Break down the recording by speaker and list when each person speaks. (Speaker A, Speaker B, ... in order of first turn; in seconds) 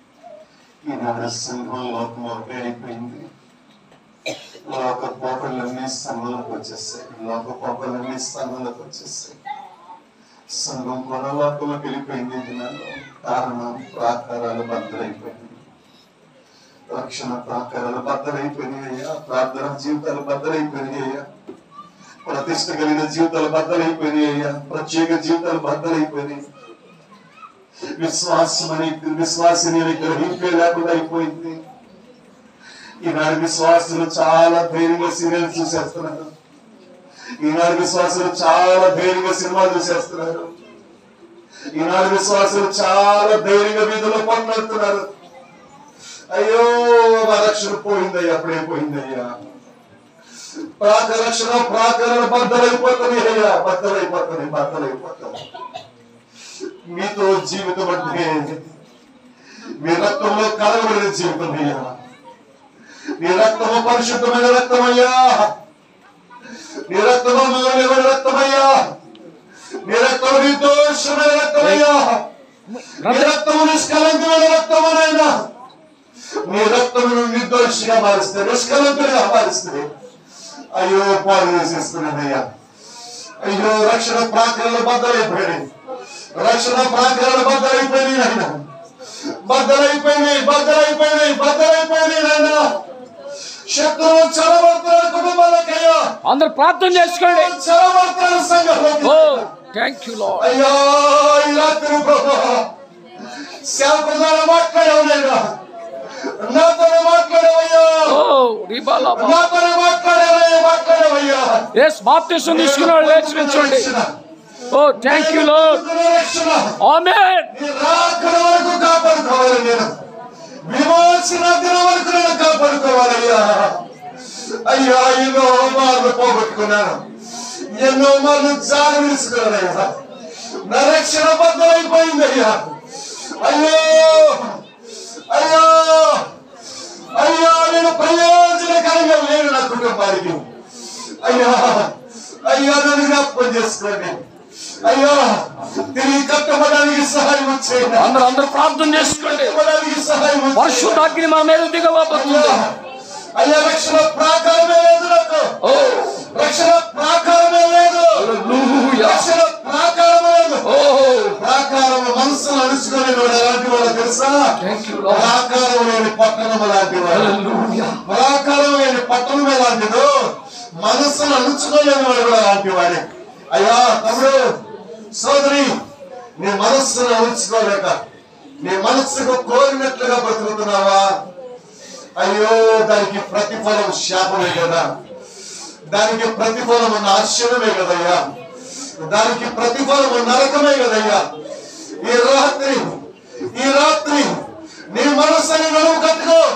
Speaker A: 0.8-3.3, 4.7-9.4, 10.5-15.6, 16.9-21.3, 22.2-26.4, 28.0-31.6, 33.0-36.3, 37.4-40.5, 41.7-45.1, 46.3-49.3, 50.8-55.4, 56.9-58.7, 59.8-62.0, 63.2-65.5, 66.9-68.8, 69.8-72.3, 73.0-75.3, 76.4-79.9, 80.7-82.5, 83.4-85.7, 86.3-88.7, 89.4-92.8, 93.7-96.1, 96.9-99.5, 100.3-102.7, 103.6-105.5, 106.3-108.2, 109.0-111.7, 112.5-114.1, 115.0-116.8, 117.5-119.9, 120.7-123.9, 124.6-127.1, 127.7-130.0, 130.6-134.6, 135.3-136.3, 137.1-140.5, 141.2-144.2, 144.8-148.2, 148.8-151.2, 152.1-152.8, 153.3-155.6, 156.1-158.3, 158.9-167.4, 168.0-174.4, 175.2-175.7, 176.4-178.0, 178.6-181.2, 182.2-184.9, 185.9-188.2, 189.0-191.3, 192.0-193.0, 193.5-196.5
Speaker B: 72.7-73.3, 96.2-97.5, 99.0-100.5, 108.0-109.4, 111.7-113.9, 114.7-115.8, 116.8-117.5, 148.0-149.6, 150.6-152.6, 155.6-156.3, 158.1-159.3, 160.6-161.4, 164.6-165.4, 167.1-168.0